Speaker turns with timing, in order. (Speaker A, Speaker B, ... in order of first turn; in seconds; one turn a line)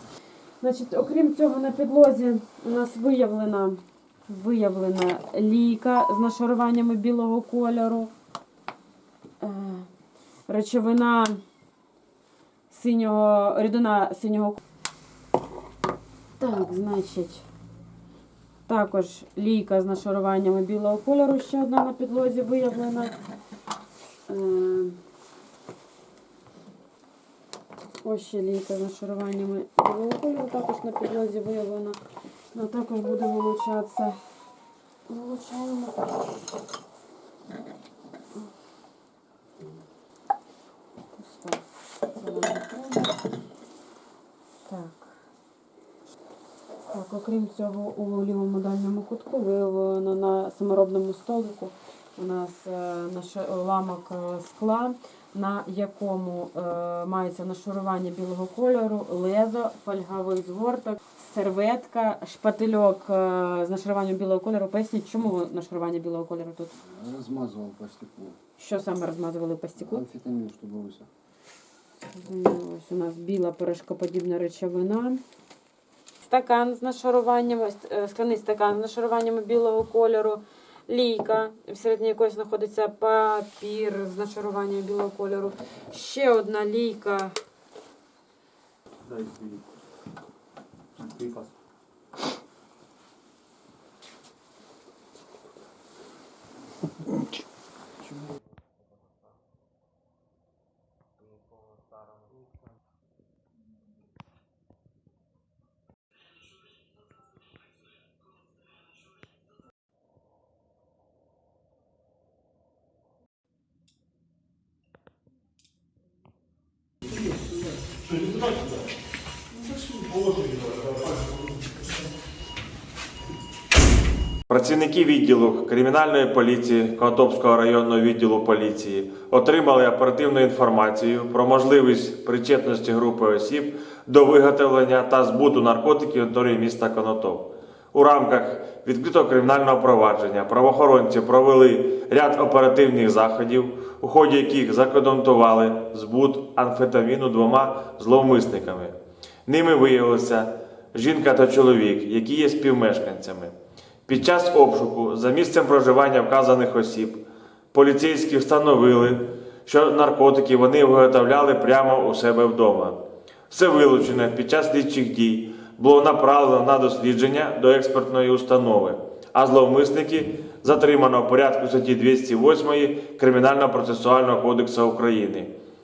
Speaker A: 0.6-8.1
Speaker A: 9.4-9.9
Speaker A: 10.4-11.4
Speaker A: 12.7-14.6
Speaker A: 16.4-17.4
Speaker A: 18.6-23.1
Speaker A: 24.3-25.0
Speaker A: 28.0-32.0
Speaker A: 32.5-34.2
Speaker A: 35.1-36.3
Speaker A: 41.1-41.6
Speaker A: 42.1-43.2
Speaker A: 44.6-45.1
Speaker A: 46.9-66.7
Speaker B: 66.8-68.4
Speaker A: 68.6-70.0
Speaker B: 69.8-71.1
Speaker A: 72.1-75.2
Speaker A: 76.2-87.3
Speaker C: 89.0-89.6
Speaker C: 91.0-91.5
Speaker C: 118.0-118.8
Speaker C: 119.5-121.8
Speaker D: 124.5-148.9
Speaker D: 149.5-153.5
Speaker D: 154.1-157.2
Speaker D: 157.7-163.0
Speaker D: 163.5-175.5